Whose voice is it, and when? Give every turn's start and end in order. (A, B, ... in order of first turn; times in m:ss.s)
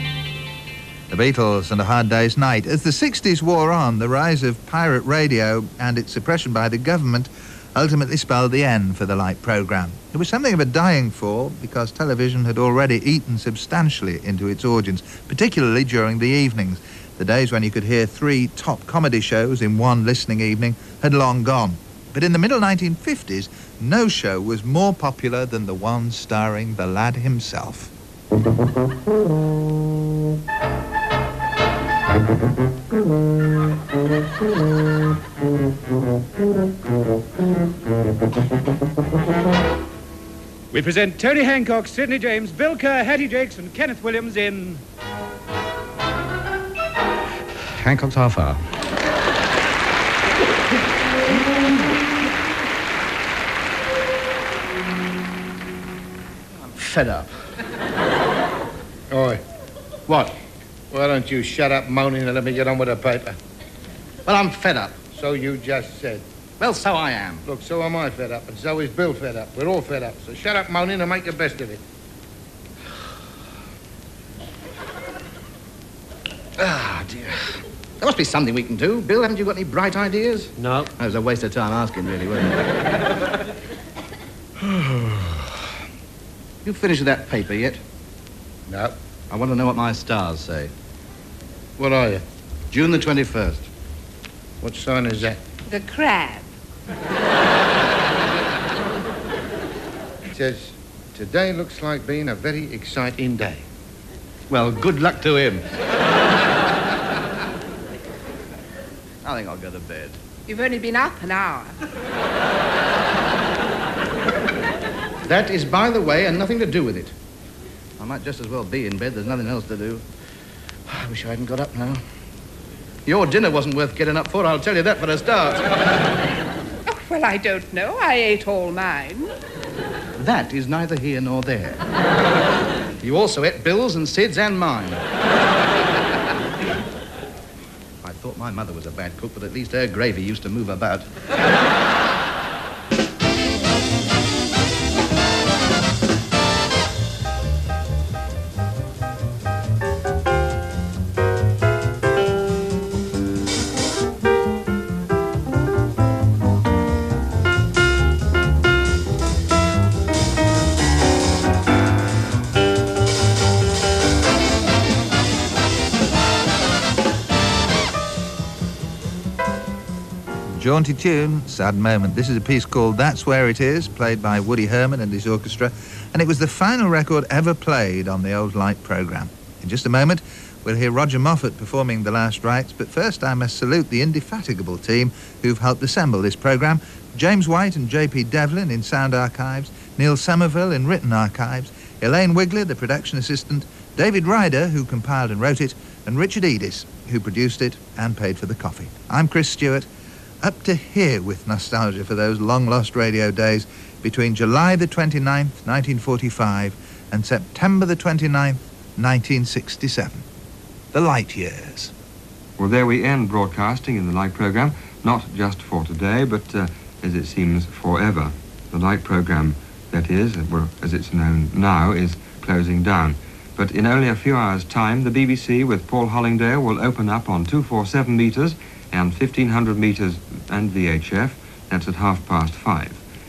0:01.1-0:27.9 A
0:40.7-0:44.8 B
0:47.8-0:48.6 C
0:56.8-0:57.3 C
0:59.1-0:59.4 D
1:00.9-1:03.4 D
1:04.3-1:05.0 C
1:05.1-1:06.2 D
1:06.6-1:07.3 C
1:07.4-1:11.8 D
1:16.6-1:17.4 C
1:18.1-1:22.6 C
1:25.0-1:25.3 C
1:26.7-1:27.8 C
1:28.7-1:28.9 D
1:29.3-1:30.7 C
1:31.8-1:32.2 D
1:32.7-1:33.6 C
1:34.6-1:35.4 D
1:35.7-1:36.4 E
1:40.3-1:43.6 D
1:45.2-1:45.6 C
1:49.2-1:50.2 C
1:50.5-1:51.8 E
1:55.3-1:57.1 C
1:58.0-2:00.0 C
2:00.9-2:02.0 C
2:03.1-2:05.6 C
2:06.9-2:09.3 E
2:10.2-2:11.8 C
2:13.0-2:15.0 C
2:18.0-2:21.0 C
2:50.5-3:19.9 A
3:20.4-3:30.2 A
3:30.9-3:31.9 A
3:32.6-3:53.0 F